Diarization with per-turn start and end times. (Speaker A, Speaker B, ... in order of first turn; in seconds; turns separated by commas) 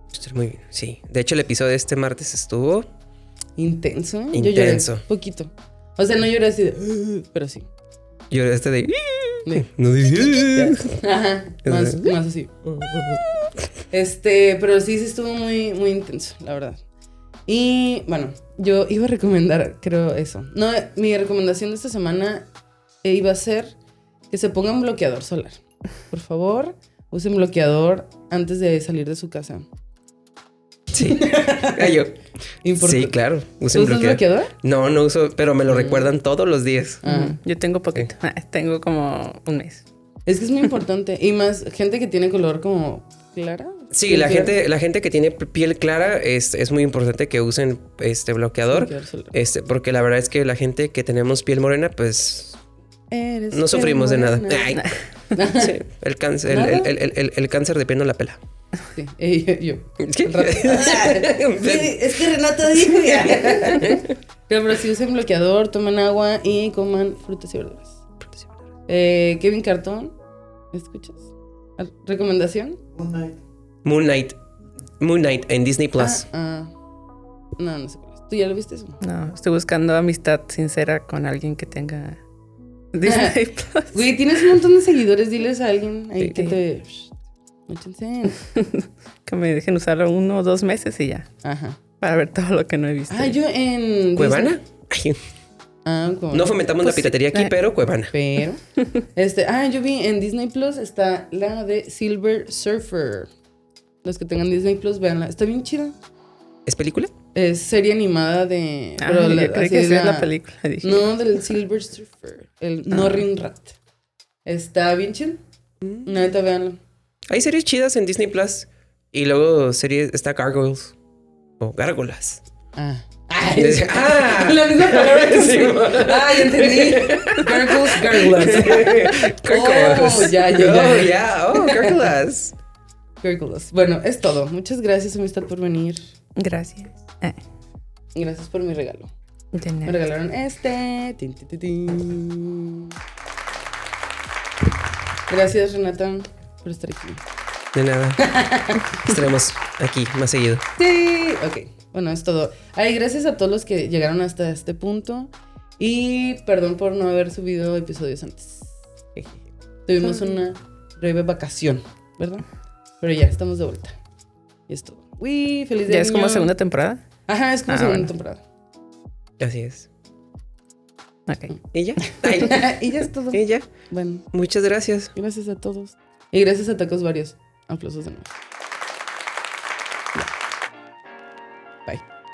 Speaker A: 0.1-2.9, Speaker B: 3.6-7.7, Speaker A: 4.3-5.0, Speaker A: 8.3-11.0, Speaker B: 9.4-12.5, Speaker A: 11.7-13.2, Speaker B: 13.9-16.8, Speaker B: 17.5-22.5, Speaker B: 23.0-23.8, Speaker B: 24.3-29.7, Speaker A: 30.9-32.2, Speaker B: 31.0-32.0, Speaker B: 32.6-33.2, Speaker A: 32.8-37.0, Speaker B: 33.7-34.5, Speaker B: 35.7-36.1, Speaker B: 37.0-37.4, Speaker C: 37.1-39.9, Speaker B: 40.3-44.6, Speaker A: 43.9-52.6, Speaker B: 48.7-49.3, Speaker B: 53.1-55.8, Speaker A: 53.5-58.4, Speaker B: 56.5-56.9, Speaker B: 58.9-68.0, Speaker A: 60.0-64.1, Speaker B: 68.9-70.2, Speaker B: 70.7-72.8, Speaker A: 73.8-74.4, Speaker A: 75.0-76.3, Speaker B: 76.0-76.7, Speaker B: 77.6-79.0, Speaker C: 79.0-82.2, Speaker C: 82.9-84.1, Speaker B: 83.0-83.3, Speaker B: 83.9-87.1, Speaker B: 87.7-88.4, Speaker C: 88.4-91.3, Speaker B: 91.4-91.8, Speaker C: 92.0-93.4, Speaker B: 93.1-94.5, Speaker A: 94.2-95.2, Speaker B: 95.9-96.7, Speaker A: 96.3-98.1, Speaker C: 96.8-97.5, Speaker B: 98.1-98.6, Speaker B: 99.2-103.3, Speaker B: 104.0-106.0, Speaker A: 106.7-107.1, Speaker B: 107.3-113.8, Speaker C: 109.0-111.2, Speaker C: 112.9-113.3, Speaker B: 114.5-115.4, Speaker A: 115.8-116.1, Speaker B: 116.0-116.8, Speaker A: 117.3-121.0, Speaker A: 121.6-122.4, Speaker B: 122.8-132.1, Speaker A: 123.6-132.6, Speaker B: 133.2-136.0, Speaker C: 136.4-137.4, Speaker B: 138.2-139.1, Speaker C: 139.5-140.0, Speaker B: 139.8-142.9, Speaker B: 145.3-147.2, Speaker A: 147.7-148.3, Speaker B: 148.2-149.1, Speaker A: 148.9-150.6, Speaker B: 150.8-162.5, Speaker B: 163.0-164.0, Speaker B: 164.7-166.5, Speaker C: 165.9-167.0, Speaker B: 167.3-168.4, Speaker C: 167.7-168.1, Speaker A: 169.4-169.9, Speaker C: 171.3-171.6, Speaker A: 171.7-172.8, Speaker B: 172.0-174.3, Speaker A: 173.3-173.7, Speaker A: 174.3-175.1, Speaker B: 175.2-178.3